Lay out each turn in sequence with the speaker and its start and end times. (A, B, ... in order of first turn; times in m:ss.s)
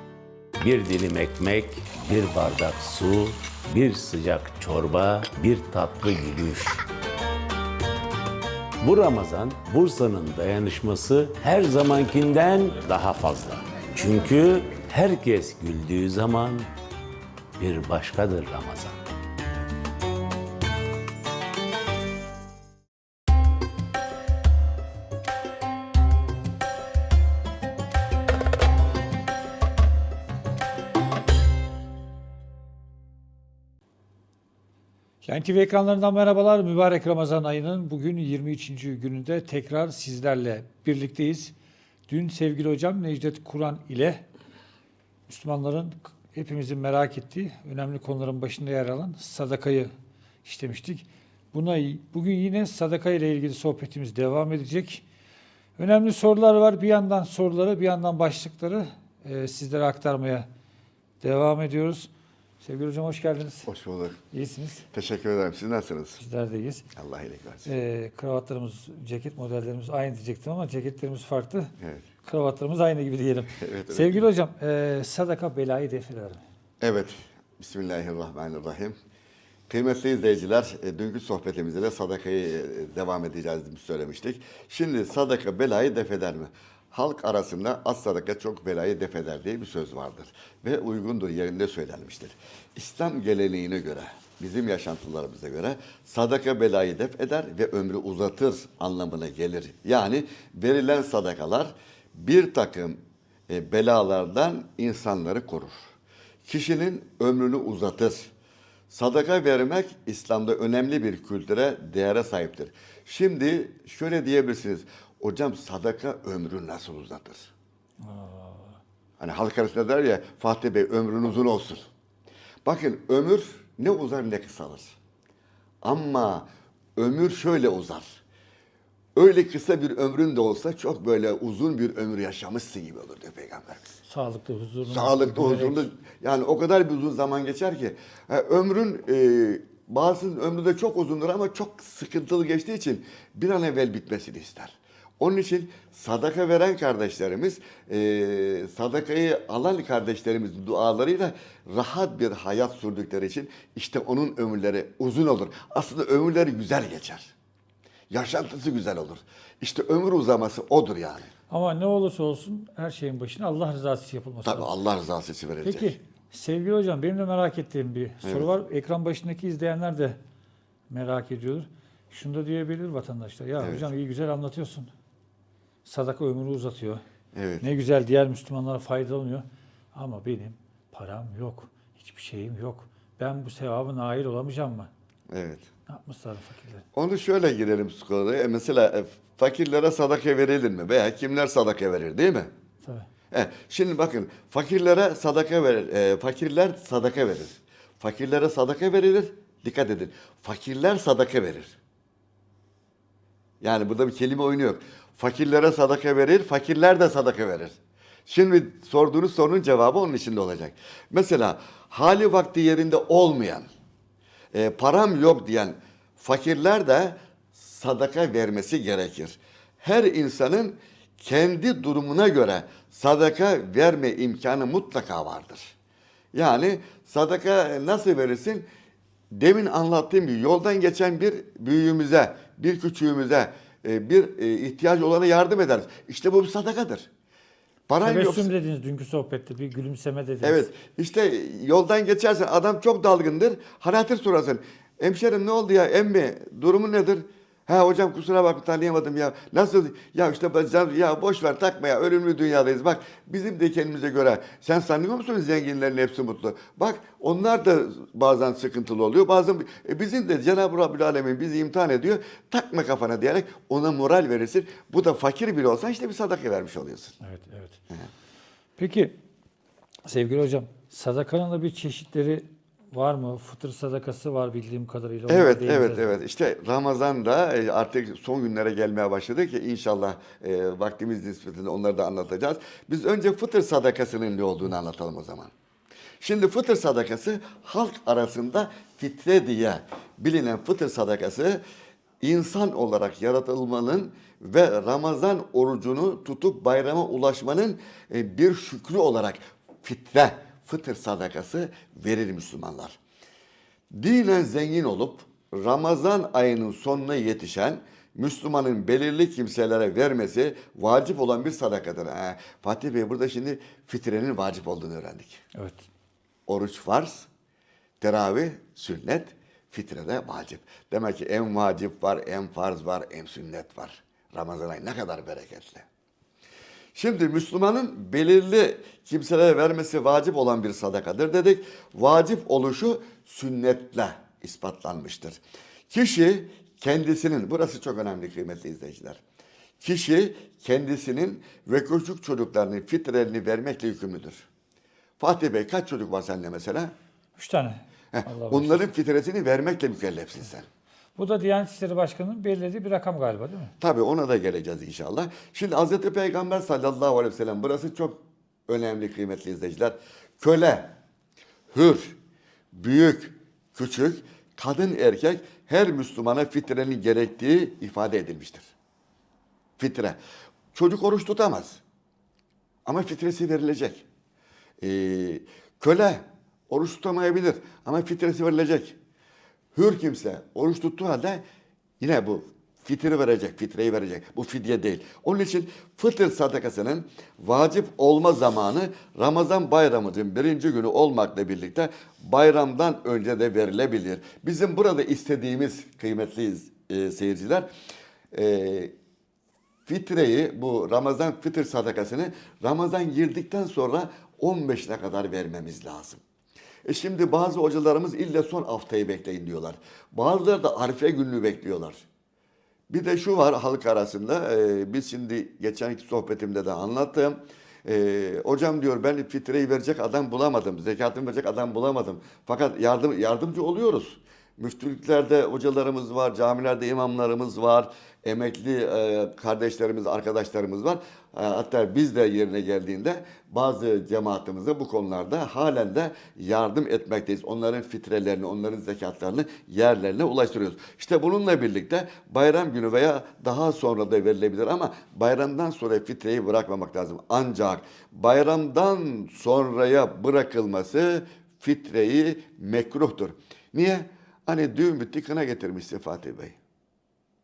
0:00.6-0:06.8 A
0:08.8-0:16.7 A
0:17.6-0:19.0 A
0:35.2-0:41.5 B
0:42.1-0:44.2 B
0:45.3-0:49.9 B
0:50.4-0:55.0 B
0:55.8-1:00.5 B
1:01.2-1:02.1 B
1:02.6-1:03.7 B
1:03.6-1:04.2 C
1:04.3-1:04.8 B
1:04.9-1:06.2 C
1:06.2-1:06.8 B
1:07.0-1:07.7 C
1:07.6-1:16.4 B
1:13.6-1:14.2 C
1:16.8-1:19.0 C
1:19.7-1:45.9 C
1:46.4-1:48.3 C
1:48.9-1:57.5 C
1:58.0-1:58.8 B
1:59.2-2:01.8 C
2:02.6-2:05.0 C
2:05.8-2:08.2 C
2:09.1-2:13.9 C
2:14.0-2:15.9 B
2:14.8-2:37.3 C
2:38.1-2:41.3 C
2:41.5-2:44.7 B
2:44.4-2:45.9 C
2:45.6-2:50.2 B
2:48.2-2:48.5 C
2:50.9-2:54.9 B
2:53.6-2:53.9 C
2:55.8-2:57.0 B
2:57.3-2:57.7 C
2:57.6-3:04.9 B
3:05.3-3:05.7 C
3:05.9-3:06.8 B
3:06.9-3:12.5 C
3:12.8-3:13.1 B
3:13.3-3:21.8 C
3:23.6-3:33.7 C
3:34.5-3:45.7 C
3:46.3-3:48.7 C
3:49.3-3:57.1 C
3:57.9-3:58.5 C
3:58.0-4:00.7 B
4:00.4-4:27.2 C
4:27.2-4:27.8 B
4:28.8-4:29.2 B
4:30.0-4:36.2 B
4:35.3-4:45.5 C
4:46.2-4:51.6 C
4:52.2-5:03.0 C
5:03.9-5:15.4 C
5:15.5-5:15.8 B
5:16.5-5:17.3 C
5:18.0-5:25.8 C
5:26.9-5:39.2 C
5:39.8-5:44.5 C
5:45.2-5:46.9 C
5:47.4-5:48.8 B
5:48.1-5:50.6 C
5:51.2-5:53.7 B
5:53.8-6:01.0 C
6:01.7-6:02.2 C
6:02.7-6:08.7 C
6:09.8-6:10.2 C
6:10.7-6:11.8 C
6:12.8-6:14.0 C
6:14.8-6:19.0 C
6:19.7-6:21.4 C
6:22.0-6:37.7 C
6:38.3-6:38.9 C
6:39.8-6:46.2 C
6:46.8-6:52.0 C
6:52.9-7:36.6 C